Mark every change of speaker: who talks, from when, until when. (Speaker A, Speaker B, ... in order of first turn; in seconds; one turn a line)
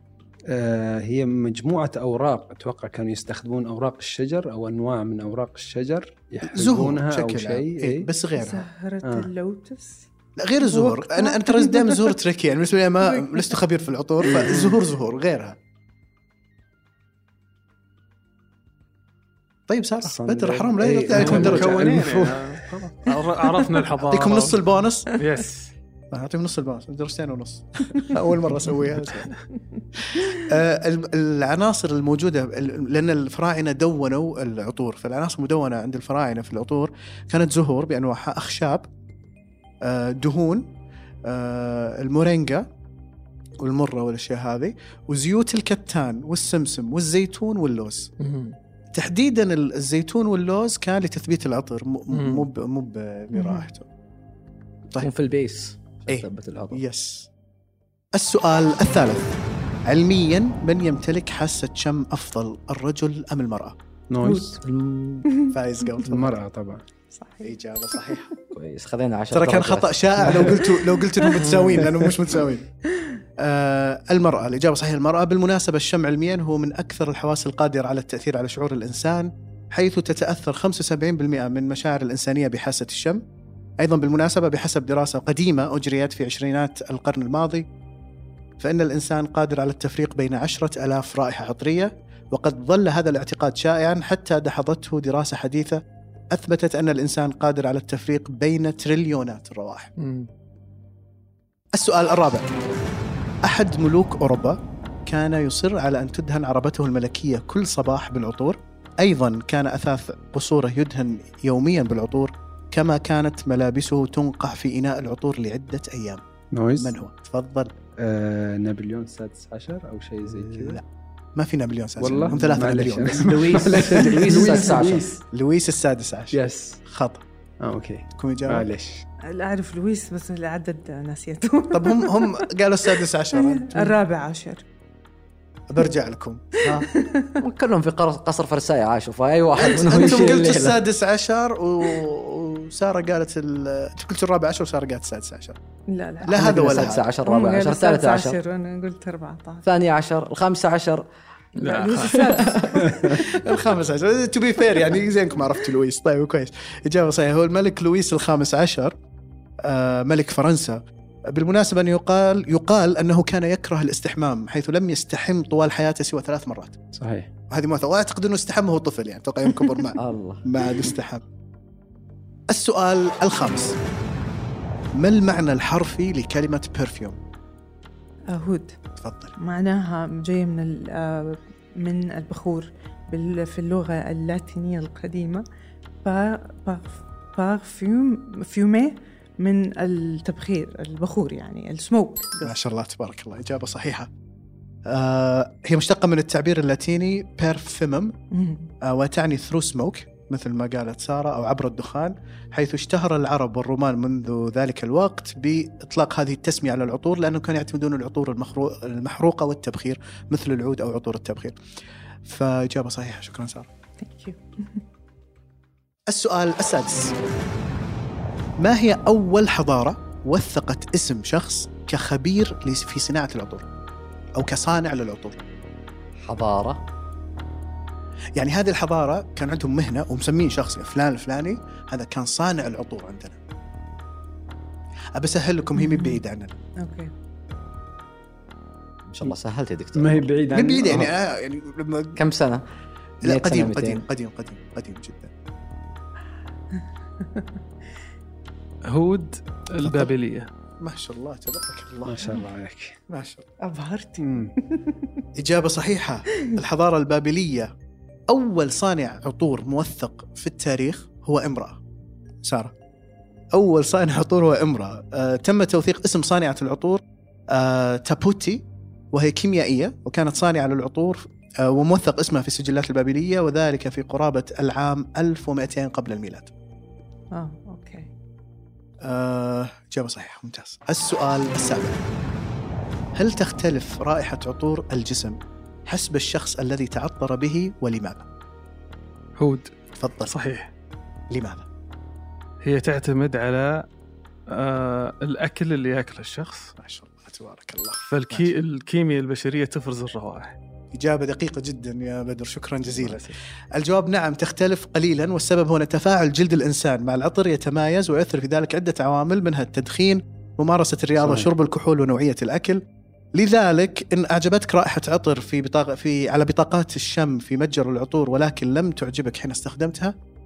Speaker A: 0.5-9.3
Speaker B: 6.4-8.5
Speaker C: 8.3-10.1
Speaker B: 10.3-15.6
Speaker C: 10.6-12.2
Speaker C: 13.0-13.6
Speaker D: 14.5-14.8
Speaker B: 19.7-22.3
Speaker A: 20.0-22.4
Speaker D: 21.1-25.7
Speaker B: 24.1-25.1
Speaker B: 26.1-29.4
Speaker B: 30.1-38.9
Speaker B: 39.8-40.7
Speaker B: 41.2-42.7
Speaker B: 43.6-48.1
Speaker D: 48.2-48.6
Speaker B: 48.9-53.8
Speaker D: 52.1-52.5
Speaker C: 53.4-53.7
Speaker E: 55.0-56.8
Speaker B: 56.1-57.3
Speaker B: 58.1-59.4
Speaker B: 59.9-63.8
Speaker A: 64.1-64.6
Speaker E: 64.2-65.3
Speaker C: 65.3-66.0
Speaker B: 65.5-66.3
Speaker A: 66.0-66.8
Speaker C: 67.1-68.5
Speaker B: 67.4-68.3
Speaker E: 68.5-70.6
Speaker B: 69.3-72.6
Speaker C: 71.0-71.5
Speaker D: 71.3-71.8
Speaker C: 72.9-73.2
Speaker B: 73.4-83.2
Speaker B: 83.8-87.7
Speaker B: 88.6-95.8
Speaker B: 96.3-99.9
Speaker D: 100.0-100.3
Speaker B: 101.7-102.5
Speaker B: 103.4-116.2
Speaker A: 116.5-116.9
Speaker B: 116.8-117.7
Speaker A: 118.0-120.8
Speaker B: 120.3-120.8
Speaker B: 121.3-123.9
Speaker A: 122.0-125.2
Speaker E: 123.2-125.1
Speaker B: 125.3-127.2
Speaker A: 126.3-126.8
Speaker A: 127.6-129.0
Speaker B: 128.2-128.7
Speaker C: 129.3-134.6
Speaker B: 131.7-133.8
Speaker B: 135.7-136.9
Speaker C: 136.7-137.4
Speaker E: 137.4-140.8
Speaker B: 139.6-145.6
Speaker C: 145.9-149.7
Speaker B: 146.2-147.0
Speaker E: 146.3-148.4
Speaker E: 149.6-151.0
Speaker D: 151.6-152.2
Speaker C: 151.6-153.4
Speaker E: 152.1-152.6
Speaker B: 153.0-158.9
Speaker B: 159.6-166.8
Speaker A: 166.9-167.3
Speaker B: 167.5-171.2
Speaker E: 169.9-170.4
Speaker B: 172.5-173.8
Speaker B: 175.0-177.2
Speaker C: 178.3-178.8
Speaker B: 179.0-179.3
Speaker C: 179.4-185.4
Speaker C: 186.0-192.6
Speaker B: 192.4-194.1
Speaker B: 194.9-198.1
Speaker C: 198.3-198.7
Speaker B: 198.8-211.6
Speaker B: 212.2-213.7
Speaker C: 214.0-214.8
Speaker B: 216.1-217.1
Speaker B: 218.6-223.7
Speaker B: 224.3-225.4
Speaker E: 226.2-226.8
Speaker B: 228.3-233.4
Speaker B: 235.2-236.5
Speaker C: 235.7-236.2
Speaker C: 236.8-237.1
Speaker E: 239.1-240.3
Speaker A: 239.9-241.1
Speaker B: 240.5-242.2
Speaker E: 242.2-242.6
Speaker E: 243.2-244.1
Speaker B: 243.2-245.3
Speaker C: 246.7-247.6
Speaker D: 248.9-250.5
Speaker B: 249.8-250.1
Speaker B: 250.8-252.3
Speaker A: 252.0-253.0
Speaker B: 253.1-253.5
Speaker C: 253.6-255.2
Speaker A: 254.2-254.5
Speaker B: 255.4-257.7
Speaker B: 258.3-261.8
Speaker B: 262.4-262.7
Speaker B: 263.5-276.5
Speaker C: 277.3-278.1
Speaker B: 279.0-282.0
Speaker B: 283.1-285.4
Speaker B: 285.9-288.2
Speaker D: 289.4-289.7
Speaker B: 289.9-290.3
Speaker D: 290.3-290.7
Speaker B: 291.3-291.6
Speaker D: 292.6-293.9
Speaker D: 294.5-296.7
Speaker B: 296.8-298.5
Speaker D: 298.1-300.6
Speaker B: 300.9-312.8
Speaker D: 302.9-303.4
Speaker A: 311.2-311.5
Speaker B: 313.3-320.1